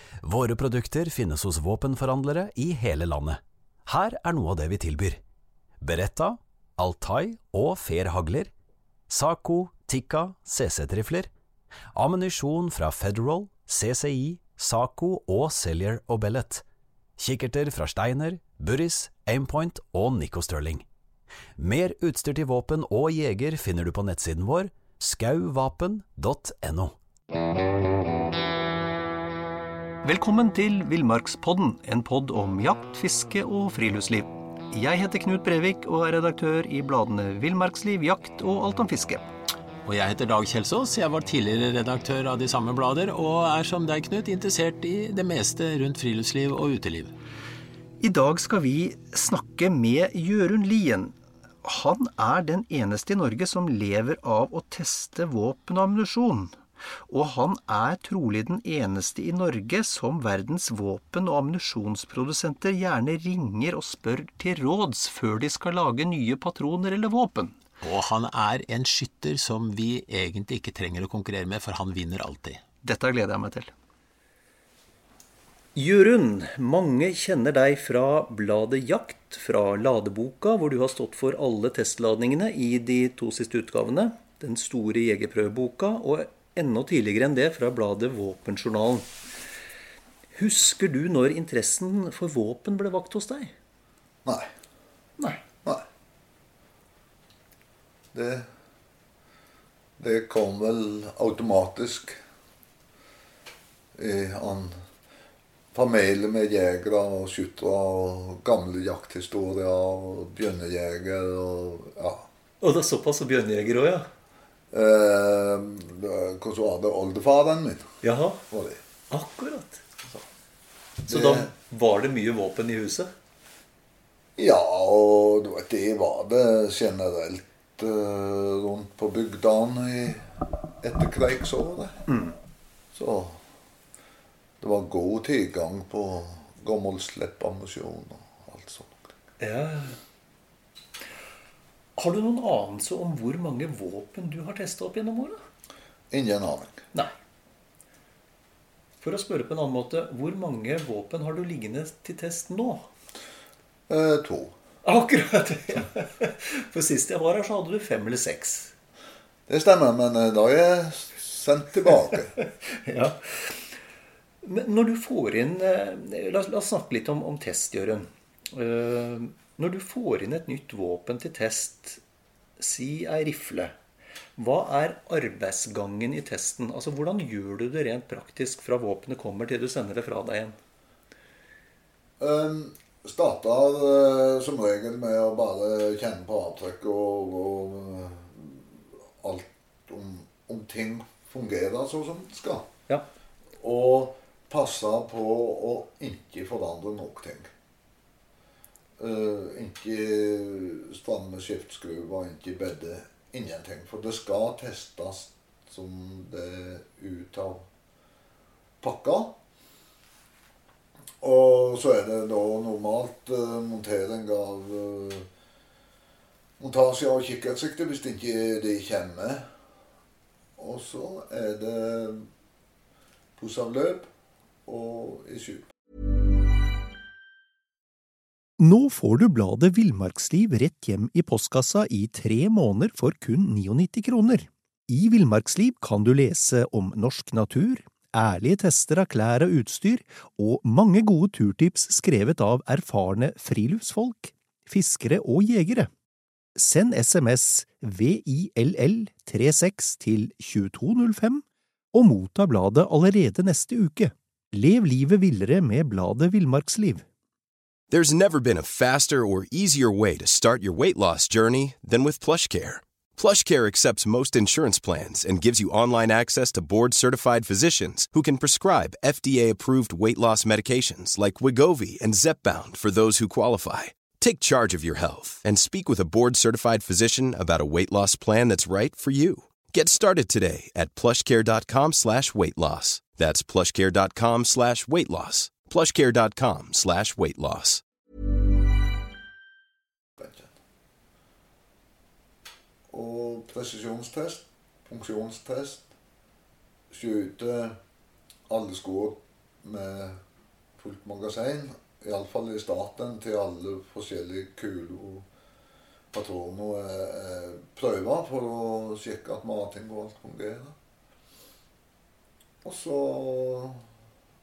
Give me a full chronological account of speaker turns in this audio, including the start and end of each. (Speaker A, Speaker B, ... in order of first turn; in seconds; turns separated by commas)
Speaker A: 0.2-5.2, Speaker A: 5.8-8.5, Speaker A: 9.1-11.3, Speaker A: 11.9-16.6, Speaker A: 17.2-20.9, Speaker A: 21.6-26.9, Speaker B: 30.0-39.3, Speaker C: 39.8-47.1, Speaker B: 48.0-67.5, Speaker C: 67.8-72.6, Speaker B: 72.8-73.7, Speaker B: 75.7-89.1, Speaker B: 90.3-93.5, Speaker D: 94.2-94.5, Speaker D: 98.1-98.5, Speaker D: 100.0-102.2, Speaker D: 103.9-104.8, Speaker D: 105.7-112.3, Speaker B: 112.6-114.1, Speaker D: 114.7-118.8, Speaker B: 118.0-118.4, Speaker B: 119.1-119.8, Speaker D: 121.1-121.5, Speaker B: 121.1-123.1, Speaker D: 124.4-132.1, Speaker B: 132.1-132.3, Speaker D: 132.9-133.4, Speaker D: 134.6-139.1, Speaker B: 139.4-140.0, Speaker B: 142.0-145.4, Speaker D: 146.1-146.8, Speaker B: 149.0-152.9, Speaker D: 153.9-154.6, Speaker B: 154.8-158.7, Speaker D: 159.5-162.3, Speaker B: 162.7-163.7, Speaker B: 164.4-172.0, Speaker B: 172.6-173.7, Speaker B: 174.4-180.6, Speaker D: 182.2-192.7, Speaker D: 193.6-197.5, Speaker D: 199.0-207.6, Speaker D: 208.8-209.4, Speaker D: 211.2-215.3, Speaker D: 216.6-219.5, Speaker D: 220.6-222.2, Speaker D: 223.4-224.1, Speaker D: 224.7-225.7, Speaker B: 228.6-245.9, Speaker B: 246.6-257.0, Speaker E: 257.9-287.8, Speaker D: 290.2-290.5, Speaker D: 292.9-295.9, Speaker D: 296.9-297.8, Speaker D: 298.5-300.2, Speaker D: 300.8-305.3, Speaker D: 306.1-310.8, Speaker D: 312.6-313.9